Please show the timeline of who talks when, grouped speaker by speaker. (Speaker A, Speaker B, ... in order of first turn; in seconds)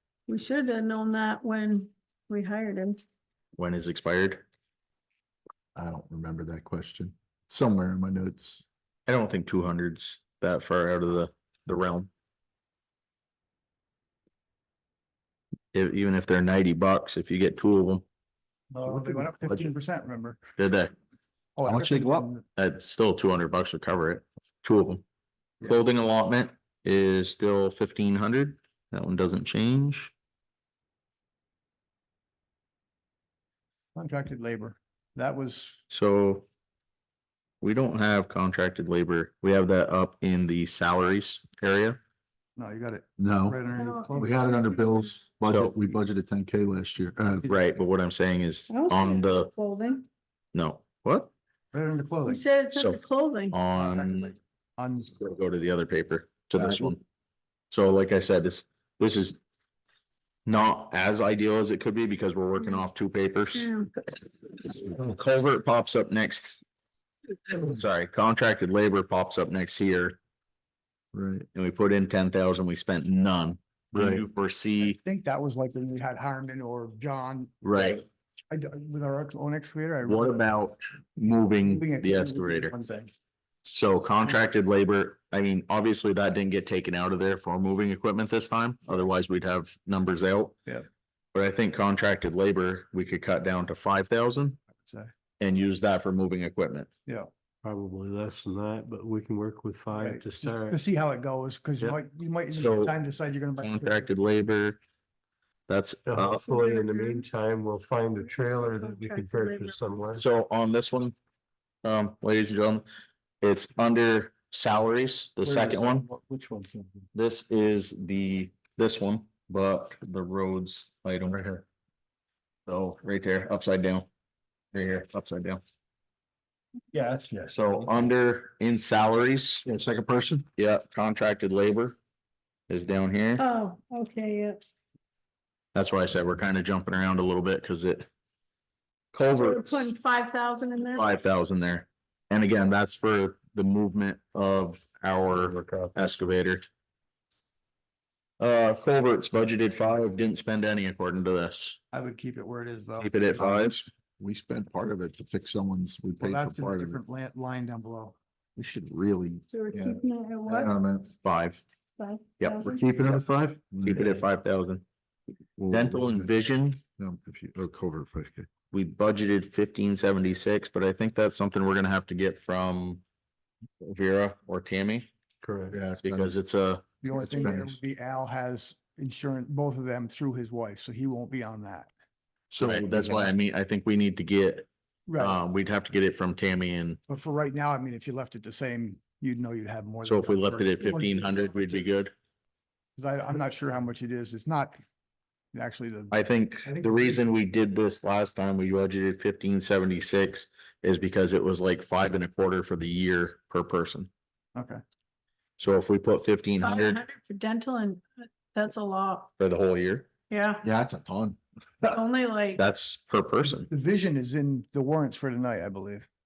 Speaker A: 0.3-3.0, 43.7-44.2, 48.7-50.0, 52.2-53.6, 63.5-63.9, 106.4-107.2, 108.2-109.8, 133.4-134.6, 139.3-141.2, 159.5-160.7, 162.0-162.8, 206.6-209.3, 210.3-210.6, 211.8-212.6
Speaker B: 3.5-4.4, 9.1-12.1, 15.7-18.0, 20.6-20.9, 22.6-25.0, 25.6-30.1, 35.9-36.5, 37.6-42.0, 45.5-45.7, 47.5-49.5, 50.5-51.3, 52.7-53.0, 53.5-54.3, 55.1-57.0, 57.7-59.4, 60.5-63.7, 64.6-66.6, 67.6-70.2, 71.5-75.0, 77.6-78.0, 80.0-82.7, 83.6-90.5, 91.3-94.6, 95.4-96.9, 102.5-102.9, 103.6-104.8, 105.7-106.4, 110.1-111.1, 111.8-112.8, 113.4-116.1, 117.1-121.4, 122.7-124.1, 124.7-125.6, 127.5-129.7, 130.6-132.0, 132.7-133.4, 135.7-138.1, 139.1-139.9, 140.9-146.6, 148.4-151.8, 153.0-153.8, 161.2-161.6, 162.4-162.7, 163.8-164.8, 165.7-166.8, 168.7-173.0, 173.8-175.1, 176.0-176.8, 182.6-187.0, 190.0-192.1, 196.1-204.1, 205.6-207.0, 209.4-210.1, 212.6-213.7
Speaker C: 5.7-8.6, 18.9-19.7, 21.7-22.3, 43.2-43.6, 44.1-47.5, 71.1-71.5, 73.9-74.2, 121.3-121.6, 126.9-127.5, 129.6-130.4, 153.4-157.0, 158.6-161.1, 162.6-164.2, 165.6-166.3, 167.0-168.5, 175.7-176.4, 177.1-177.8, 182.5-183.3, 210.6-211.4
Speaker D: 18.7-20.4, 21.6-22.4, 33.9-35.8, 42.6-44.4, 51.7-52.4, 53.8-54.2, 54.8-55.1, 74.8-77.9, 78.5-80.5, 81.6-83.1, 94.8-95.1, 99.9-104.1, 115.6-116.7, 151.9-153.5, 156.2-158.1, 177.0-181.9, 185.1-185.4, 187.1-191.9, 192.9-194.8, 195.5-197.2, 204.5-204.8, 213.7-216.1
Speaker E: 97.6-100.8, 106.0-110.2, 145.3-145.9, 175.4-175.8